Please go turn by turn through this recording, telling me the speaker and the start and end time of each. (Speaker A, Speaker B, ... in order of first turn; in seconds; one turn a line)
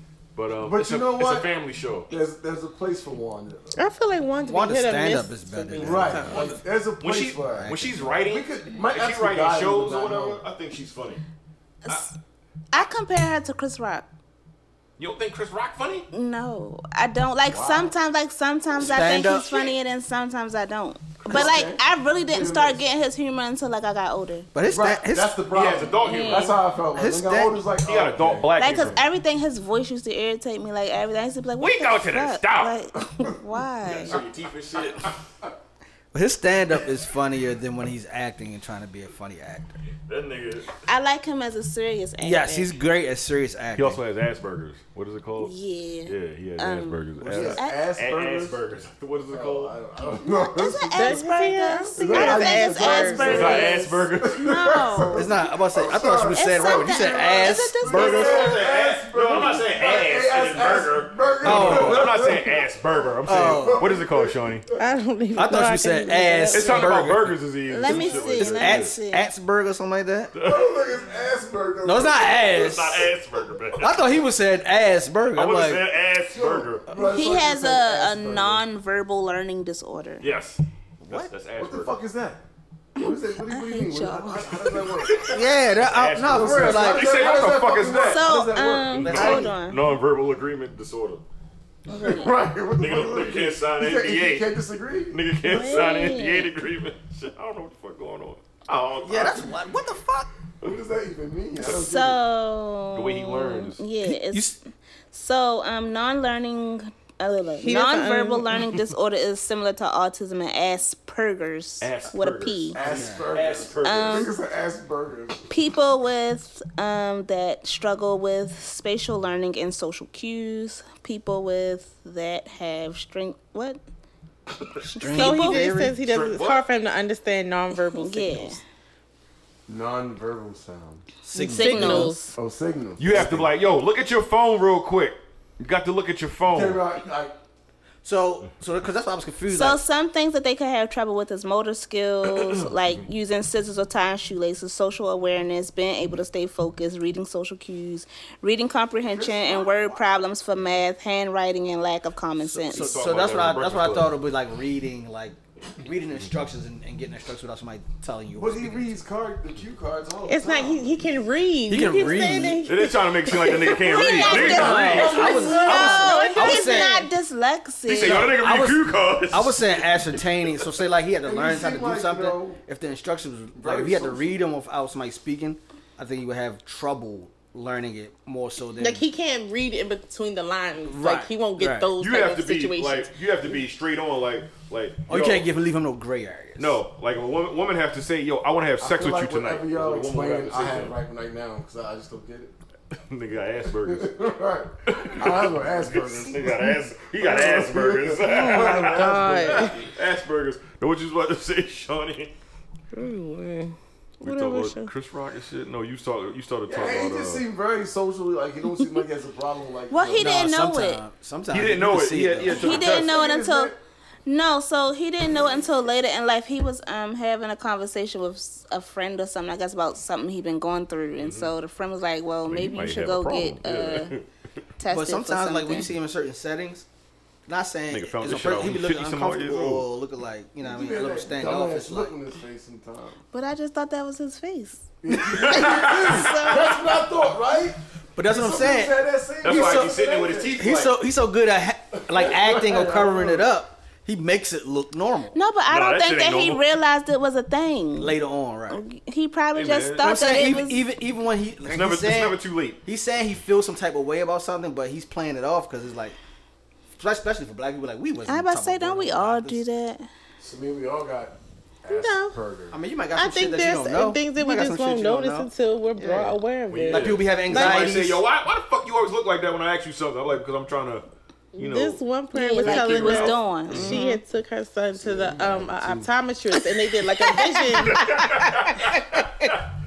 Speaker A: 0.3-2.1
Speaker B: 0.5-1.5
Speaker B: 2.1-3.8
Speaker C: 3.8-6.5
Speaker D: 4.4-6.5
Speaker B: 5.8-10.4
Speaker A: 7.0-11.2
Speaker D: 7.6-8.1
Speaker E: 11.8-12.1
Speaker E: 12.7-14.1
Speaker A: 15.0-16.1
Speaker E: 16.1-24.5
Speaker B: 17.4-17.9
Speaker D: 18.8-19.7
Speaker B: 21.2-22.8
Speaker D: 24.5-25.4
Speaker B: 24.6-29.0
Speaker A: 25.5-26.6
Speaker E: 26.0-26.6
Speaker D: 26.9-27.6
Speaker A: 27.8-29.0
Speaker E: 28.6-34.2
Speaker A: 31.6-32.8
Speaker A: 33.8-35.2
Speaker D: 36.1-39.8
Speaker A: 40.0-40.7
Speaker E: 40.9-42.7
Speaker D: 42.2-44.0
Speaker A: 43.8-45.5
Speaker E: 45.4-47.8
Speaker A: 46.0-49.8
Speaker D: 47.2-47.6
Speaker B: 47.3-48.6
Speaker B: 49.3-51.2
Speaker E: 50.1-55.2
Speaker C: 50.9-53.6
Speaker B: 52.0-64.8
Speaker A: 53.2-54.5
Speaker D: 55.1-58.6
Speaker E: 56.3-58.5
Speaker A: 58.0-64.6
Speaker D: 61.4-62.3
Speaker D: 63.3-63.9
Speaker C: 64.8-66.9
Speaker D: 65.3-67.4
Speaker A: 66.5-69.0
Speaker E: 67.7-69.3
Speaker B: 67.9-68.2
Speaker D: 68.4-70.3
Speaker A: 70.3-70.8
Speaker B: 70.4-73.0
Speaker D: 71.8-73.1
Speaker A: 72.2-74.2
Speaker D: 73.8-75.8
Speaker A: 75.3-76.9
Speaker B: 76.3-78.6
Speaker E: 76.9-80.3
Speaker A: 80.2-81.9
Speaker D: 81.0-81.3
Speaker B: 81.6-82.4
Speaker B: 83.0-85.4
Speaker E: 83.0-85.1
Speaker A: 85.1-88.3
Speaker D: 85.3-87.4
Speaker B: 86.3-89.4
Speaker E: 88.0-89.8
Speaker A: 88.9-91.2
Speaker D: 89.0-89.5
Speaker B: 91.9-95.8
Speaker E: 91.9-92.3
Speaker A: 92.8-94.5
Speaker A: 95.1-99.6
Speaker E: 95.4-96.5
Speaker D: 99.0-100.3
Speaker B: 100.6-102.2
Speaker E: 101.6-104.6
Speaker A: 102.9-103.8
Speaker D: 104.0-104.6
Speaker E: 105.1-112.8
Speaker C: 107.6-108.6
Speaker A: 111.8-114.3
Speaker B: 112.7-115.5
Speaker D: 112.8-113.4
Speaker E: 113.8-114.4
Speaker E: 115.5-123.8
Speaker D: 124.8-126.0
Speaker E: 124.9-125.7
Speaker C: 125.1-128.6
Speaker A: 126.0-126.6
Speaker E: 127.9-128.6
Speaker B: 129.7-131.0
Speaker D: 131.2-132.2
Speaker E: 131.4-132.3
Speaker C: 131.4-132.4
Speaker B: 132.3-133.5
Speaker A: 133.0-136.8
Speaker B: 136.4-137.3
Speaker D: 138.0-139.8
Speaker E: 139.5-152.9
Speaker B: 149.1-150.1
Speaker D: 152.4-159.0
Speaker A: 152.4-154.2
Speaker B: 158.4-161.0
Speaker C: 160.3-163.7
Speaker D: 161.7-162.7
Speaker A: 162.6-165.4
Speaker E: 163.6-168.4
Speaker B: 164.2-165.7
Speaker D: 164.2-167.1
Speaker C: 164.4-167.0
Speaker A: 167.9-170.6
Speaker D: 167.9-179.1
Speaker B: 171.2-172.6
Speaker B: 173.6-174.3
Speaker C: 178.8-183.1
Speaker D: 180.8-181.9
Speaker A: 182.0-185.5
Speaker D: 185.1-186.8
Speaker A: 186.6-191.0
Speaker B: 188.8-192.5
Speaker A: 192.9-194.2
Speaker B: 193.7-199.8
Speaker A: 194.8-202.3
Speaker C: 198.3-199.8
Speaker C: 202.9-204.9
Speaker A: 204.2-207.4
Speaker B: 206.7-210.4
Speaker E: 209.9-211.0
Speaker D: 210.2-213.0
Speaker A: 211.5-213.2
Speaker E: 212.5-213.7
Speaker B: 212.6-213.8
Speaker E: 214.2-224.1
Speaker A: 221.2-221.5
Speaker A: 222.5-224.2
Speaker E: 224.8-225.9
Speaker D: 224.9-226.9
Speaker D: 227.5-232.2
Speaker A: 227.9-229.9
Speaker B: 230.6-233.2
Speaker E: 233.3-237.0
Speaker B: 235.0-240.8
Speaker A: 235.1-236.8
Speaker D: 238.2-245.4
Speaker A: 239.4-240.9
Speaker B: 242.0-243.5
Speaker E: 245.3-248.2
Speaker A: 245.7-246.6
Speaker D: 247.9-248.8
Speaker E: 248.7-250.8
Speaker A: 249.5-250.5
Speaker D: 250.0-256.2
Speaker A: 251.6-252.8
Speaker D: 256.9-259.6
Speaker E: 258.3-260.1
Speaker B: 260.4-262.8
Speaker C: 261.9-262.4
Speaker D: 262.7-268.2
Speaker C: 263.1-267.9
Speaker A: 266.7-272.0
Speaker C: 271.5-279.2
Speaker E: 272.3-274.2
Speaker A: 272.6-273.9
Speaker B: 274.9-276.1
Speaker E: 277.1-278.3
Speaker A: 277.9-279.6